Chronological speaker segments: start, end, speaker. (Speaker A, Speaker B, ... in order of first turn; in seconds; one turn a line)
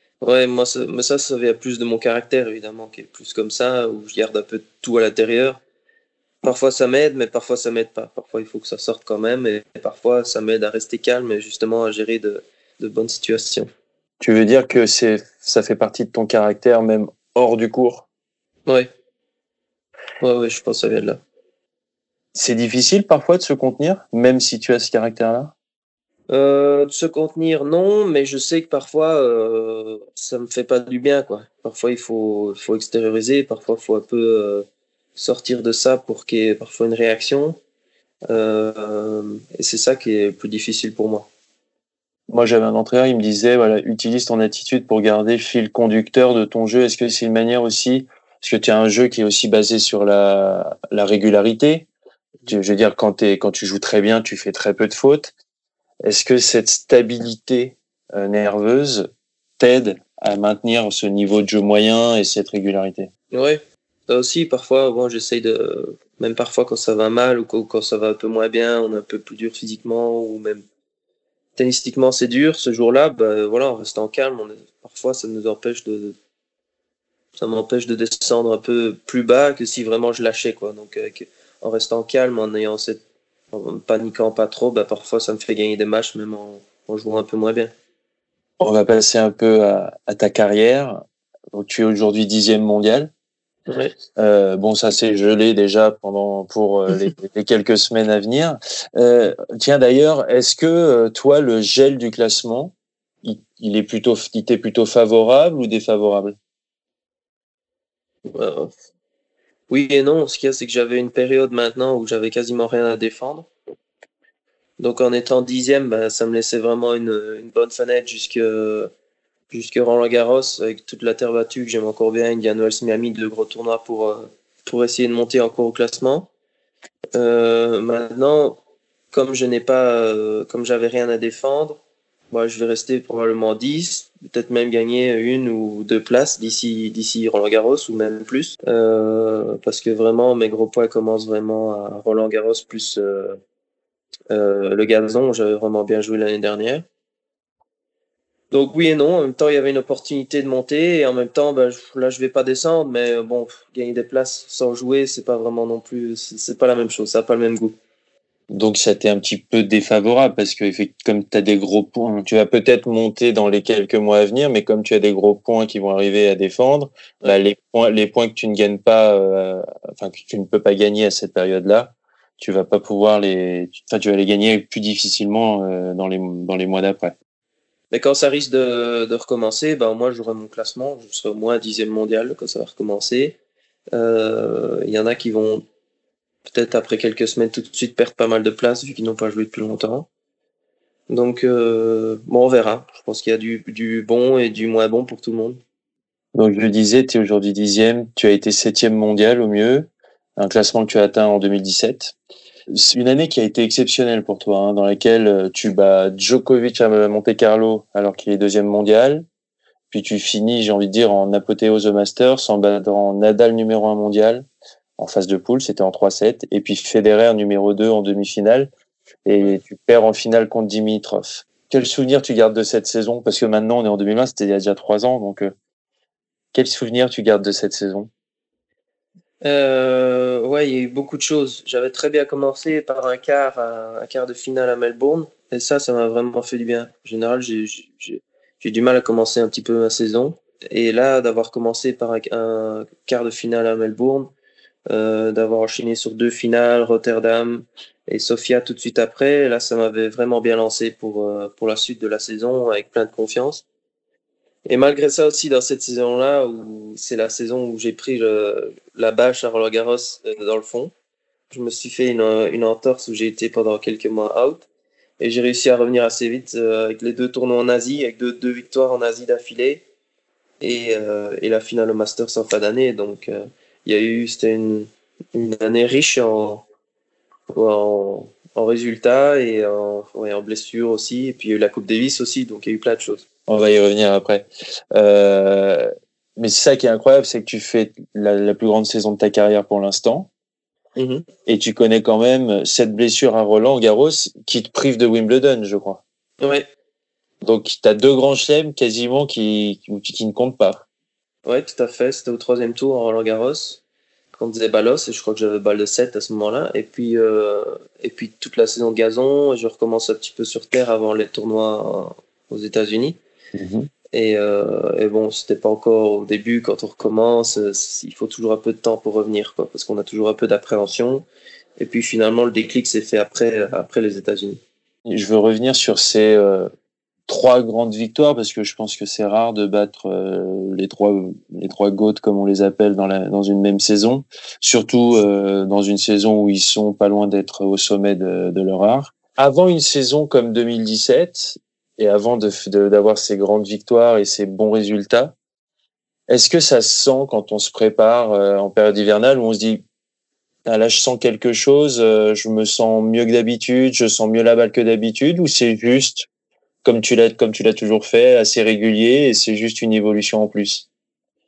Speaker A: 0.2-5.6
Speaker A: 6.4-13.7
Speaker B: 14.2-18.1
Speaker A: 20.2-21.2
Speaker B: 22.3-25.5
Speaker A: 26.3-37.6
Speaker A: 38.3-41.3
Speaker B: 42.3-51.9
Speaker B: 52.5-55.3
Speaker B: 56.0-59.1
Speaker B: 59.6-63.1
Speaker A: 63.3-70.6
Speaker A: 71.5-76.2
Speaker A: 77.3-87.7
Speaker B: 88.6-93.1
Speaker A: 93.7-93.9
Speaker B: 94.2-106.4
Speaker A: 108.3-108.7
Speaker A: 109.7-113.5
Speaker A: 114.8-118.9
Speaker A: 119.5-126.3
Speaker A: 127.1-128.6
Speaker A: 129.1-131.8
Speaker A: 132.3-143.4
Speaker A: 144.3-146.8
Speaker A: 148.5-157.8
Speaker B: 158.5-177.1
Speaker A: 177.9-183.4
Speaker A: 183.9-185.6
Speaker A: 186.4-190.1
Speaker A: 191.1-195.6
Speaker B: 196.3-202.1
Speaker B: 202.7-209.2
Speaker B: 209.9-214.4
Speaker B: 215.0-218.7
Speaker B: 219.2-225.5
Speaker B: 226.5-228.1
Speaker A: 229.4-244.3
Speaker A: 244.9-253.6
Speaker A: 254.7-260.9
Speaker A: 261.5-264.6
Speaker A: 265.2-269.8
Speaker A: 270.6-276.6
Speaker A: 277.5-283.2
Speaker B: 283.5-290.3
Speaker A: 290.9-291.2
Speaker B: 291.4-296.0
Speaker A: 296.4-296.7
Speaker B: 297.4-300.8
Speaker A: 301.4-303.8
Speaker A: 304.3-313.2
Speaker B: 313.5-313.9
Speaker A: 314.1-321.2
Speaker A: 321.8-324.6
Speaker B: 325.1-326.7
Speaker B: 327.3-345.3
Speaker B: 346.3-349.8
Speaker B: 350.6-356.3
Speaker B: 356.8-360.9